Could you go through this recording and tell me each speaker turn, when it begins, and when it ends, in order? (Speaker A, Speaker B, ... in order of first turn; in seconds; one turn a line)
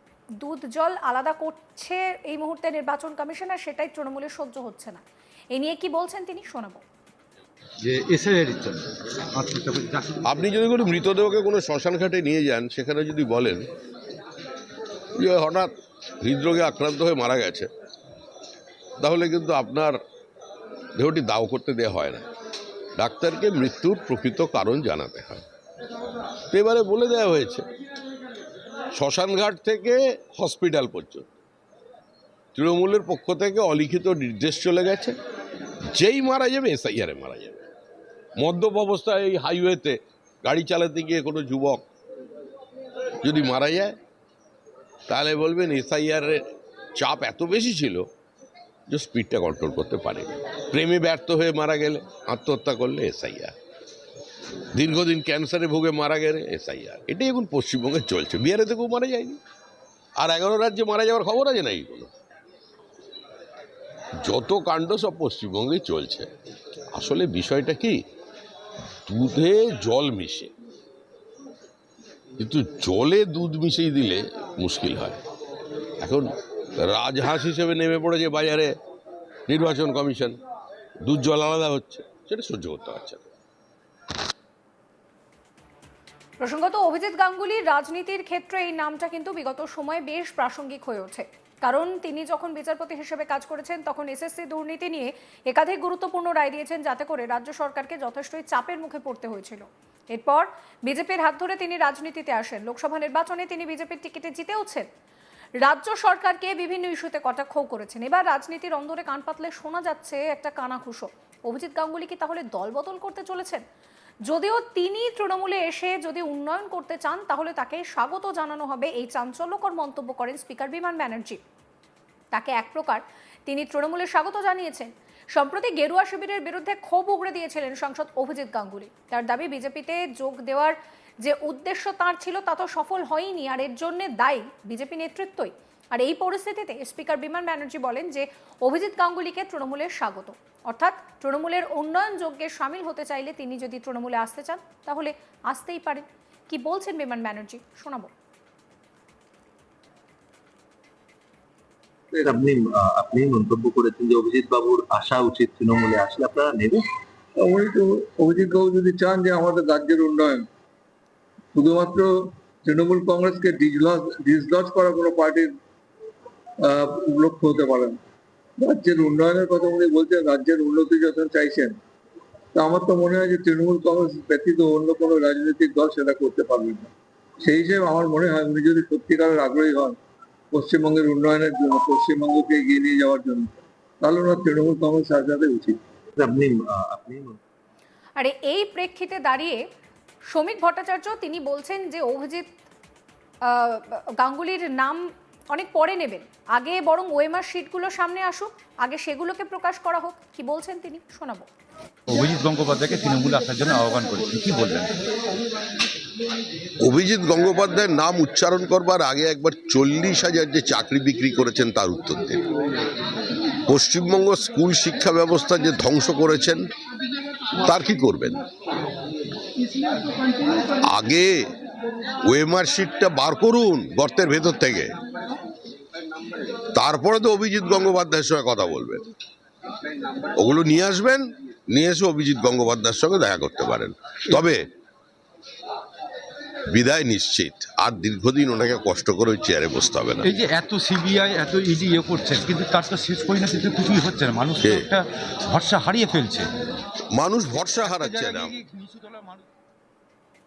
Speaker A: 0.4-6.8
Speaker B: 7.8-10.4
Speaker C: 10.2-13.7
Speaker C: 15.2-17.7
Speaker C: 19.0-20.0
Speaker C: 20.9-22.2
Speaker C: 23.0-25.4
Speaker C: 26.5-27.7
Speaker C: 28.9-31.3
Speaker C: 32.5-35.2
Speaker C: 35.9-37.7
Speaker C: 38.4-41.8
Speaker C: 43.2-44.0
Speaker C: 45.1-46.4
Speaker C: 47.0-48.1
Speaker C: 48.9-53.5
Speaker C: 54.7-59.4
Speaker C: 60.2-62.1
Speaker C: 64.2-66.3
Speaker C: 66.9-68.0
Speaker C: 69.1-70.5
Speaker C: 72.4-75.2
Speaker C: 76.0-78.8
Speaker C: 79.5-80.4
Speaker C: 81.0-83.3
Speaker A: 86.4-104.9
Speaker A: 105.6-113.6
Speaker A: 114.2-121.4
Speaker A: 122.3-148.1
Speaker D: 152.2-156.8
Speaker E: 157.4-160.5
Speaker E: 161.6-162.1
Speaker E: 162.7-165.5
Speaker E: 166.6-168.0
Speaker E: 168.6-171.8
Speaker E: 172.6-176.9
Speaker E: 177.4-180.0
Speaker E: 180.5-185.8
Speaker D: 186.2-187.4
Speaker A: 188.2-189.6
Speaker A: 190.3-192.5
Speaker A: 193.4-201.5
Speaker B: 202.1-204.9
Speaker C: 206.8-212.4
Speaker C: 213.7-216.6
Speaker C: 217.6-218.4
Speaker C: 220.8-221.3
Speaker C: 222.2-224.9
Speaker C: 226.7-229.0
Speaker C: 230.4-234.6
Speaker C: 236.7-240.3
Speaker B: 240.2-246.5
Speaker C: 244.6-244.9
Speaker C: 247.1-248.6
Speaker B: 247.6-249.5